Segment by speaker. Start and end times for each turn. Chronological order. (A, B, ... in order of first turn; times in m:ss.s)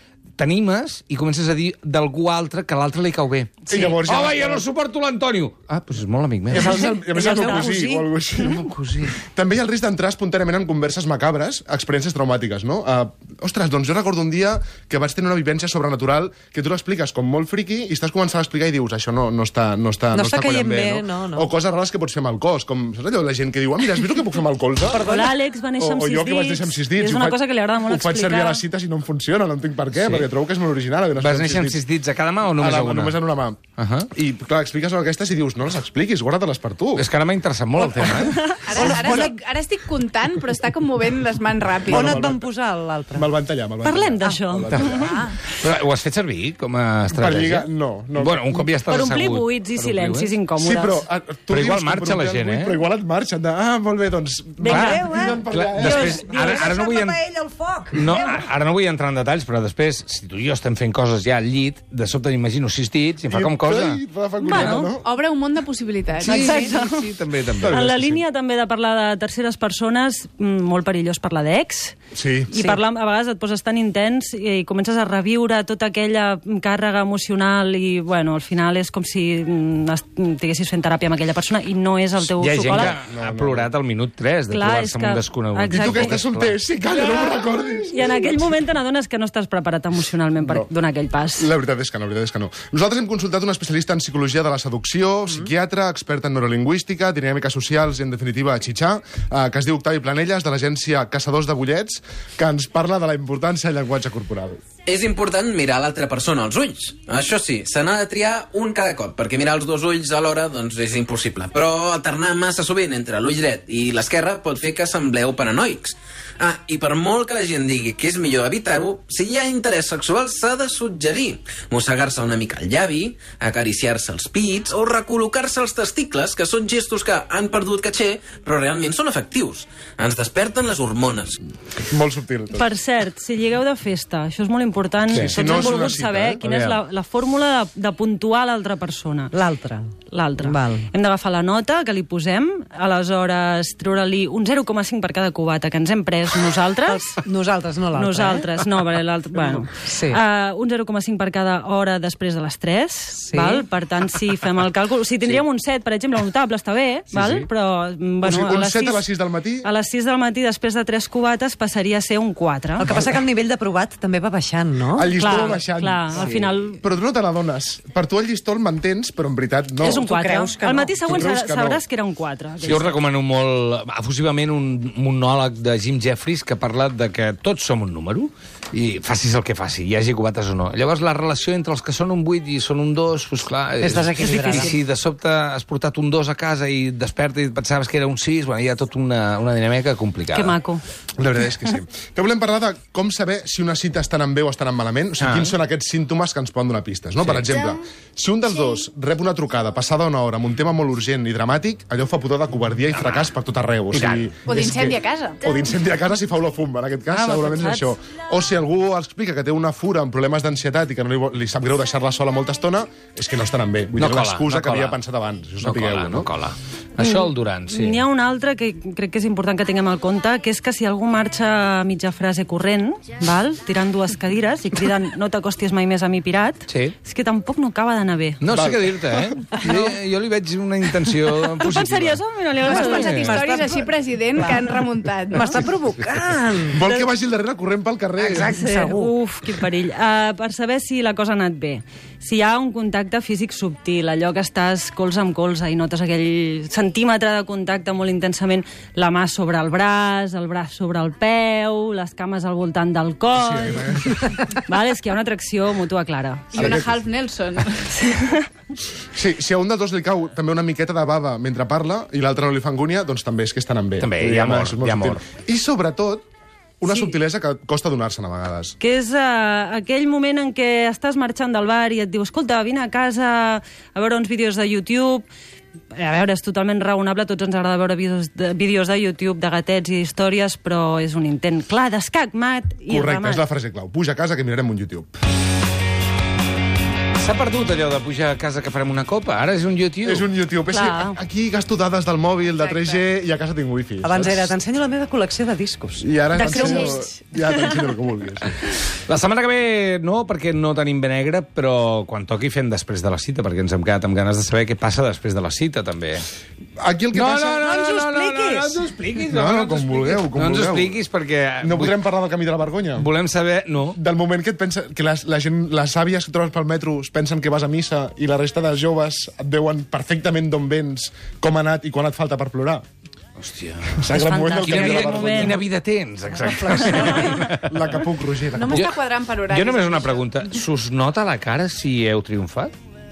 0:00.4-0:07.8 A
0:03.7-0:04.6 B
0:06.5-0:08.7 B
0:06.5-0:08.6 C
0:08.4-0:09.2 A
0:09.2-0:25.2 B
0:20.1-0:21.5 D
0:24.9-0:28.6 C
0:25.8-0:31.8 B
0:29.9-0:30.3 A
0:31.2-0:33.2 A
0:32.6-0:33.6 B
0:33.8-0:34.1 A
0:34.1-0:37.0 B
0:37.0-0:38.6 A
0:38.0-0:39.3 C
0:38.6-0:42.2 E
0:38.7-0:39.4 D
0:41.9-0:43.3 D
0:41.9-0:42.5 B
0:43.1-0:45.1 B
0:43.8-0:45.1 C
0:44.2-0:45.3 D
0:45.5-0:50.3 A
0:47.1-0:48.7 B
0:48.9-0:51.0 C
0:50.6-0:56.3 B
0:51.5-0:52.8 A
0:54.6-0:56.7 C
0:54.6-0:55.0 A
0:54.7-0:58.4 D
0:55.5-0:57.2 A
0:57.9-1:04.0 A
1:03.3-1:05.1 B
1:04.4-1:04.9 C
1:05.0-1:06.7 E
1:06.2-1:07.1 C
1:06.3-1:07.8 A
1:07.6-1:08.2 B
1:07.6-1:12.0 C
1:12.1-1:12.7 B
1:12.5-1:23.0 C
1:22.4-1:26.6 A
1:22.7-1:23.7 B
1:24.5-1:26.2 C
1:25.7-1:28.6 B
1:27.0-1:27.3 C
1:27.8-1:31.5 C
1:30.4-1:30.7 B
1:31.4-1:44.6 B
1:44.9-2:11.4 F
2:11.8-2:12.7 B
2:12.5-2:19.3 C
2:15.1-2:15.8 A
2:15.1-2:16.8 B
2:19.3-2:20.8 D
2:20.1-2:27.2 C
2:26.9-2:28.5 D
2:27.9-2:39.1 C
2:29.8-2:30.2 D
2:33.3-2:33.6 D
2:37.1-2:37.5 A
2:38.2-2:39.7 B
2:39.6-2:42.9 C
2:42.8-2:45.6 D
2:42.9-2:43.1 B
2:44.9-2:50.0 B
2:45.2-2:46.8 C
2:46.2-2:46.5 A
2:49.8-2:53.0 C
2:49.8-2:51.1 D
2:51.0-2:51.8 B
2:52.6-3:10.5 A
3:03.8-3:04.8 D
3:10.3-3:10.8 C
3:11.2-3:36.3 B
3:15.2-3:15.5 A
3:17.2-3:17.5 A
3:23.0-3:23.3 A
3:23.9-3:24.3 A
3:24.5-3:25.4 E
3:27.1-3:27.9 C
3:33.9-3:35.0 A
3:35.6-3:38.0 A
3:37.0-3:48.4 C
3:46.7-3:46.9 A
3:48.4-3:52.2 A
3:48.5-3:49.5 B
3:51.6-3:53.3 C
3:52.6-3:55.5 E
3:52.6-3:54.8 D
3:52.8-3:53.4 A
3:55.3-3:57.0 D
3:56.7-3:58.5 B
3:58.2-3:59.1 D
3:58.4-4:16.7 C
4:13.3-4:14.3 B
4:16.5-4:17.8 E
4:16.5-4:17.0 B
4:18.1-4:18.4 C
4:19.1-4:26.2 B
4:24.0-4:25.2 A
4:26.8-4:28.8 B
4:26.8-4:27.1 C
4:28.8-4:35.2 C
4:35.9-4:43.4 C
4:42.9-4:45.1 B
4:47.2-4:50.3 A
4:50.0-4:54.5 B
4:50.7-4:51.2 C
4:52.5-4:53.0 E
4:54.0-4:56.9 D
4:56.0-4:58.5 B
4:56.4-4:57.0 C
4:59.0-5:06.3 A
5:06.8-5:07.7 B
5:07.1-5:12.0 A
5:07.6-5:08.8 D
5:09.3-5:11.0 B
5:11.6-5:13.1 B
5:13.0-5:14.0 A
5:13.9-5:22.8 B
5:23.4-5:28.0 A
5:24.0-5:25.6 B
5:24.3-5:24.6 D
5:24.5-5:25.6 C
5:26.4-5:27.3 D
5:26.8-5:28.8 B
5:28.5-5:30.3 E
5:28.7-5:32.7 A